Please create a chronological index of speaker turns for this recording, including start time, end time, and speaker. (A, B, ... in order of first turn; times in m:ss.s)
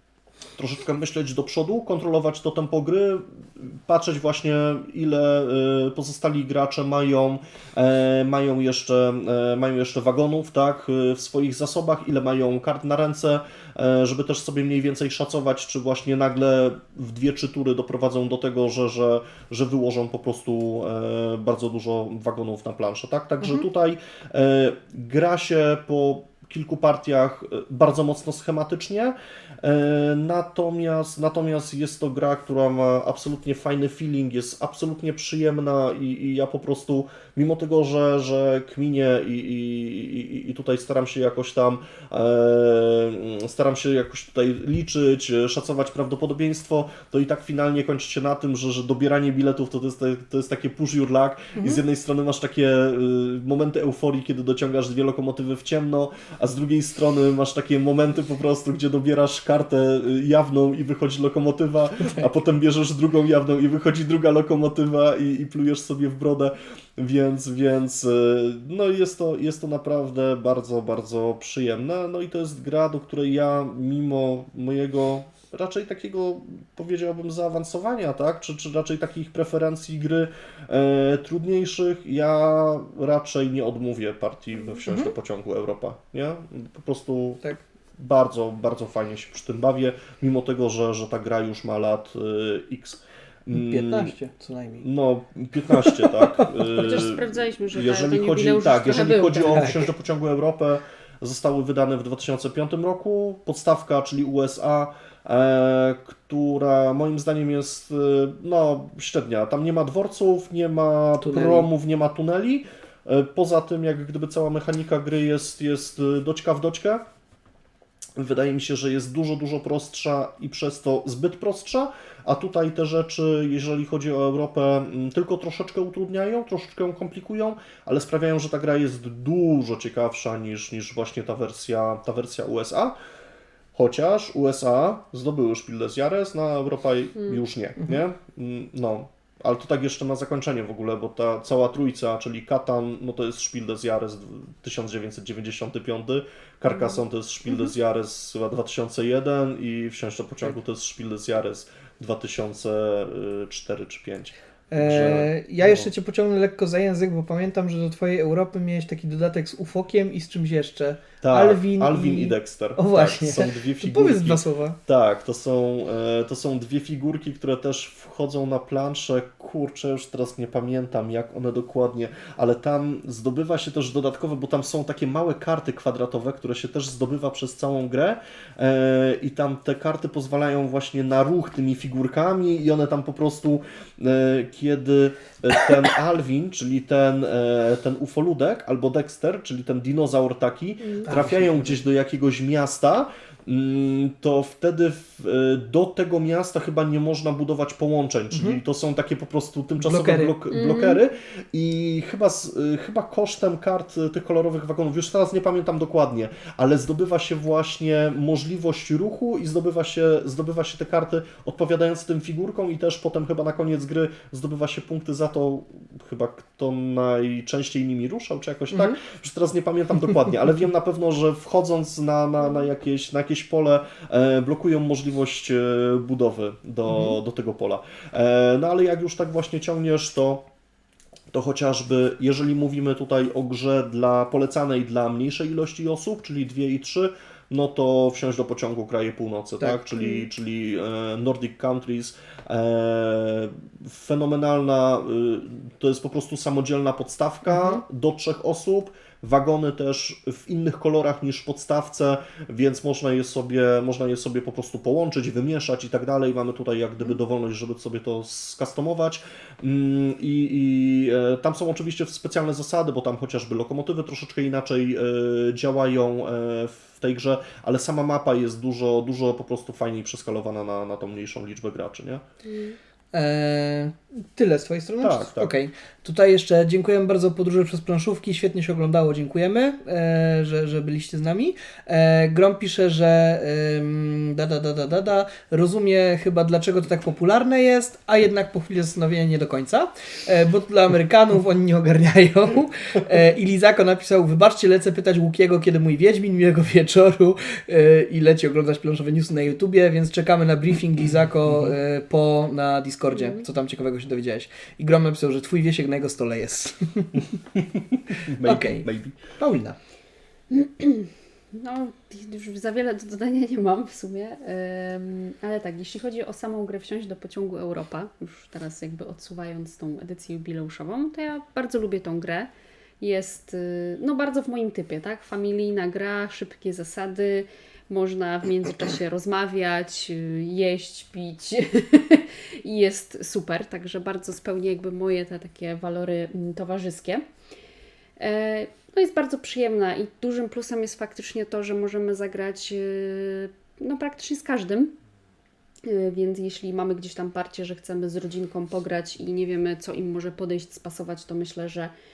0:00.6-1:27.4 A
0:51.6-0:51.8 B
1:24.9-1:25.1 B
1:28.0-1:34.1 A
1:33.5-1:34.9 B
1:34.8-1:57.0 A
1:35.7-1:36.7 B
1:36.7-1:39.8 C
1:39.4-1:39.8 B
1:51.2-1:51.7 B
1:58.2-2:13.0 A
2:13.7-2:35.9 A
2:34.7-2:44.8 B
2:41.2-3:50.5 A
3:11.1-3:11.8 B
3:18.3-3:18.6 B
3:19.8-3:20.3 B
3:20.5-3:21.0 C
3:38.7-3:39.0 B
3:46.9-3:47.2 B
3:51.3-4:32.2 A
3:59.6-4:00.0 B
4:07.5-4:07.8 B
4:32.4-4:32.8 C
4:33.1-5:07.3 B
4:35.0-4:35.5 A
5:03.1-5:03.4 C
5:07.5-5:09.4 A
5:08.3-5:09.8 B
5:10.5-5:37.2 C
5:38.2-5:45.0 C
5:45.8-5:51.9 C